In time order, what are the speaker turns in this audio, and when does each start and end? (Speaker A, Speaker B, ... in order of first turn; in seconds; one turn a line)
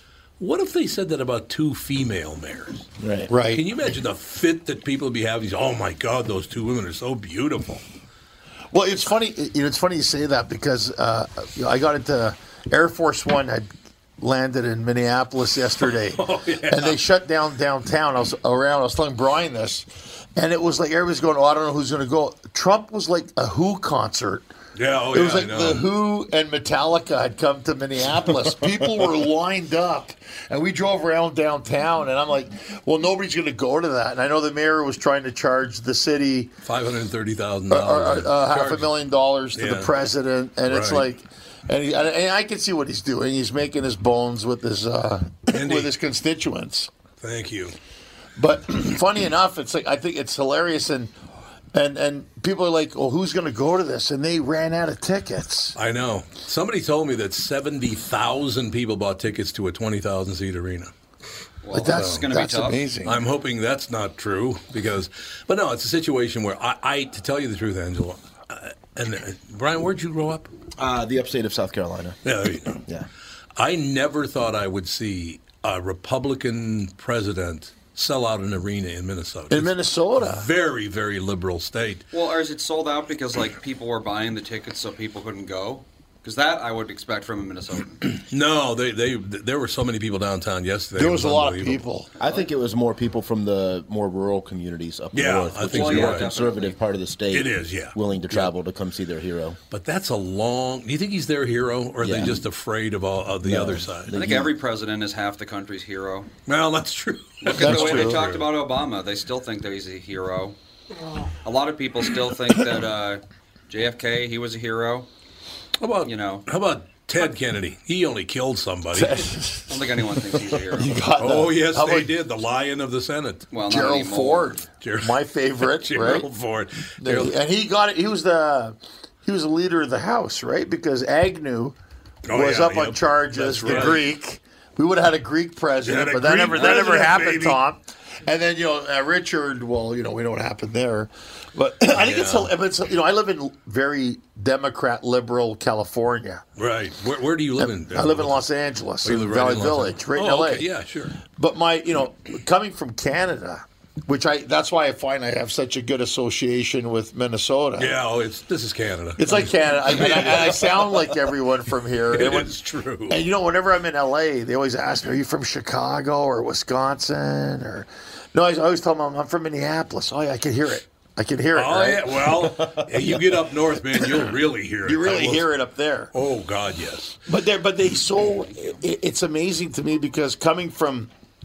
Speaker A: 0.4-2.9
Speaker B: 3.0-3.3
Speaker C: 3.3-3.6
Speaker A: 3.4-7.8
Speaker C: 8.7-24.5
Speaker A: 15.8-17.0
Speaker A: 24.7-25.9
Speaker C: 25.1-36.5
Speaker A: 36.6-38.9
Speaker C: 37.7-46.9
Speaker A: 39.5-39.9
Speaker A: 40.6-41.0
Speaker A: 45.5-45.9
Speaker A: 47.2-47.7
Speaker C: 48.4-51.1
Speaker C: 51.7-55.8
Speaker A: 55.8-60.9
Speaker D: 61.6-62.9
Speaker C: 61.7-63.2
Speaker A: 61.7-62.3
Speaker A: 63.0-70.5
Speaker B: 70.8-72.2
Speaker A: 72.2-72.8
Speaker A: 73.5-82.0
Speaker C: 79.5-80.5
Speaker D: 82.1-88.0
Speaker A: 88.1-91.8
Speaker C: 90.9-92.1
Speaker B: 92.2-99.6
Speaker D: 92.2-92.5
Speaker A: 95.1-96.3
Speaker D: 95.6-96.8
Speaker A: 97.3-98.5
Speaker A: 99.7-104.1
Speaker B: 102.0-102.4
Speaker B: 103.4-104.5
Speaker D: 104.1-106.3
Speaker A: 106.5-108.5
Speaker D: 107.4-110.5
Speaker C: 107.5-108.3
Speaker D: 111.4-115.1
Speaker A: 115.8-119.2
Speaker D: 116.0-116.4
Speaker C: 118.9-119.8
Speaker D: 119.7-121.0
Speaker C: 120.7-122.1
Speaker A: 121.2-123.5
Speaker D: 123.5-124.6
Speaker C: 123.6-126.3
Speaker A: 124.8-127.3
Speaker C: 127.0-131.8
Speaker A: 132.2-134.1
Speaker C: 132.3-146.4
Speaker A: 135.8-137.6
Speaker A: 141.9-142.5
Speaker A: 146.6-148.4
Speaker C: 147.6-150.7
Speaker A: 149.0-151.2
Speaker C: 151.2-157.9
Speaker A: 157.8-161.0
Speaker C: 159.2-162.5
Speaker A: 162.1-163.2
Speaker C: 163.1-172.3
Speaker A: 171.5-175.5
Speaker C: 173.9-174.2
Speaker C: 174.8-176.1
Speaker A: 176.1-177.2
Speaker C: 177.3-181.1